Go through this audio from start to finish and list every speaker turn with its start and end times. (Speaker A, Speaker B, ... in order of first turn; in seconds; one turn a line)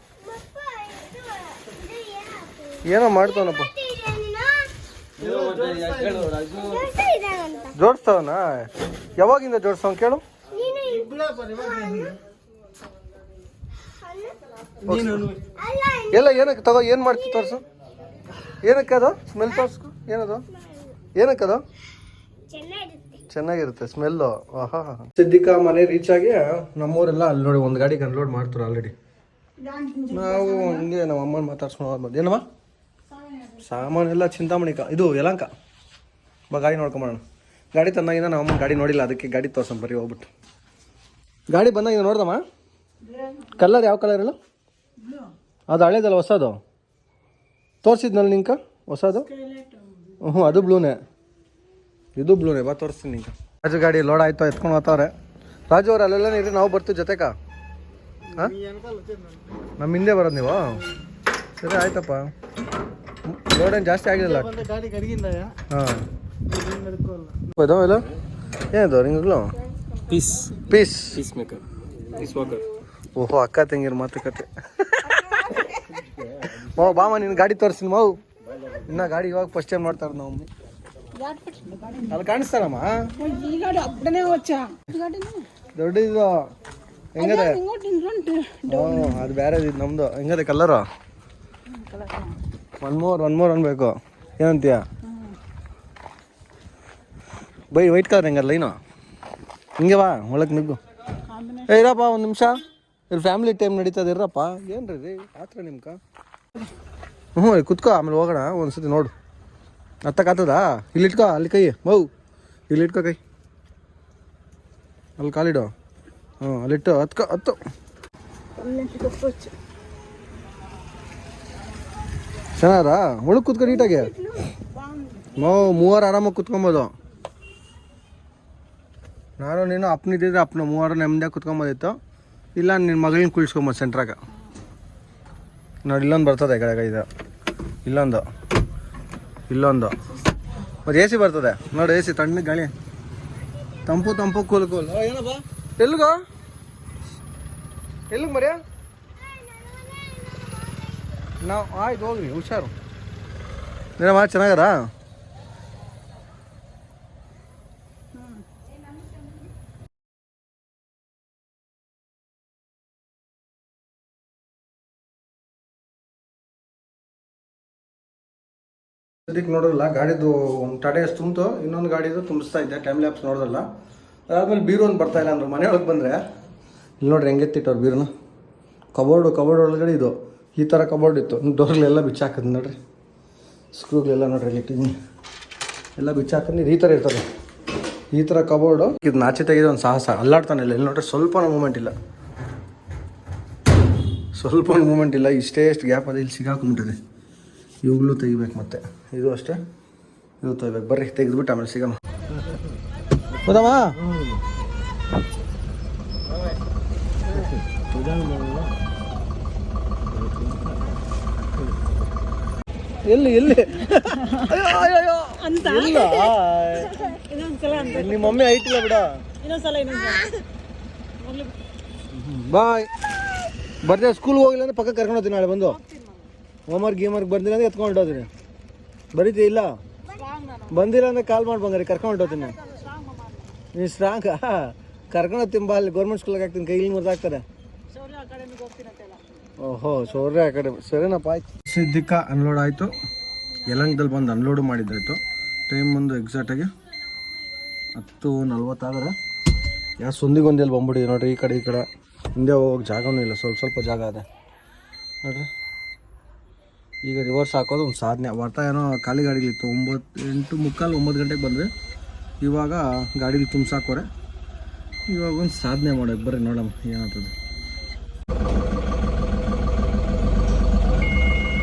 Speaker A: 0.2-4.7
Speaker B: 2.8-3.7
Speaker C: 5.2-6.9
Speaker A: 6.3-7.8
Speaker B: 7.7-10.2
Speaker A: 10.5-12.2
Speaker A: 13.8-14.4
Speaker C: 14.8-15.4
Speaker B: 14.8-15.3
Speaker A: 15.6-17.5
Speaker B: 16.1-17.6
Speaker B: 18.6-20.4
Speaker A: 20.5-21.0
Speaker B: 21.1-21.6
Speaker A: 22.5-23.2
Speaker B: 23.3-28.9
Speaker D: 29.7-30.2
Speaker B: 30.1-32.4
Speaker B: 33.6-35.5
Speaker B: 36.5-37.2
Speaker B: 37.7-40.3
Speaker B: 41.5-42.4
Speaker B: 43.4-44.3
Speaker B: 45.7-46.6
Speaker B: 47.8-49.3
Speaker B: 50.2-51.0
Speaker B: 52.1-55.1
Speaker B: 55.7-57.3
Speaker C: 58.6-59.3
Speaker B: 59.8-60.8
Speaker B: 61.6-62.3
Speaker B: 63.3-64.5
Speaker C: 64.5-65.5
Speaker B: 65.7-66.0
Speaker C: 66.5-67.3
Speaker B: 67.4-68.0
Speaker B: 68.6-69.5
Speaker C: 70.1-70.5
Speaker B: 70.6-71.2
Speaker C: 71.1-71.6
Speaker C: 72.1-72.6
Speaker B: 73.1-75.8
Speaker B: 76.5-78.2
Speaker B: 78.8-80.5
Speaker D: 81.2-82.0
Speaker B: 82.1-82.9
Speaker D: 83.2-85.5
Speaker B: 85.7-86.3
Speaker B: 87.2-87.6
Speaker D: 87.2-89.1
Speaker B: 88.6-90.8
Speaker D: 91.8-92.3
Speaker B: 92.8-94.8
Speaker B: 97.7-98.8
Speaker B: 99.8-100.8
Speaker B: 101.5-106.0
Speaker B: 107.3-109.1
Speaker B: 110.0-112.1
Speaker B: 112.7-113.2
Speaker B: 115.2-115.7
Speaker B: 116.4-117.6
Speaker A: 118.6-119.5
Speaker B: 122.6-124.1
Speaker A: 123.6-124.5
Speaker B: 125.3-126.9
Speaker B: 129.4-131.9
Speaker B: 132.6-134.2
Speaker B: 135.8-137.1
Speaker B: 137.8-138.2
Speaker B: 139.5-139.9
Speaker B: 140.8-142.7
Speaker B: 143.8-146.2
Speaker B: 148.1-148.6
Speaker A: 149.1-151.1
Speaker B: 151.4-152.7
Speaker B: 154.0-154.7
Speaker B: 169.3-173.7
Speaker B: 174.3-176.2
Speaker B: 177.0-178.1
Speaker B: 178.9-182.8
Speaker B: 183.7-184.9
Speaker B: 185.9-187.2
Speaker B: 188.1-191.9
Speaker B: 194.3-197.0
Speaker B: 197.8-199.6
Speaker B: 200.4-202.0
Speaker B: 203.4-203.9
Speaker C: 204.0-204.4
Speaker C: 207.3-208.7
Speaker C: 210.1-210.8
Speaker B: 213.0-219.2
Speaker D: 215.4-216.2
Speaker D: 217.2-217.8
Speaker D: 219.4-220.3
Speaker D: 221.2-221.5
Speaker B: 222.1-222.9
Speaker B: 223.8-225.8
Speaker B: 226.7-228.3
Speaker B: 229.1-229.7
Speaker A: 230.1-230.4
Speaker B: 230.7-232.6
Speaker B: 233.7-237.4
Speaker C: 238.2-239.0
Speaker B: 239.6-242.9
Speaker B: 243.7-246.7
Speaker B: 247.9-249.1
Speaker B: 250.0-254.2
Speaker B: 255.2-255.5
Speaker B: 257.0-261.7
Speaker B: 262.4-264.1
Speaker B: 265.1-267.3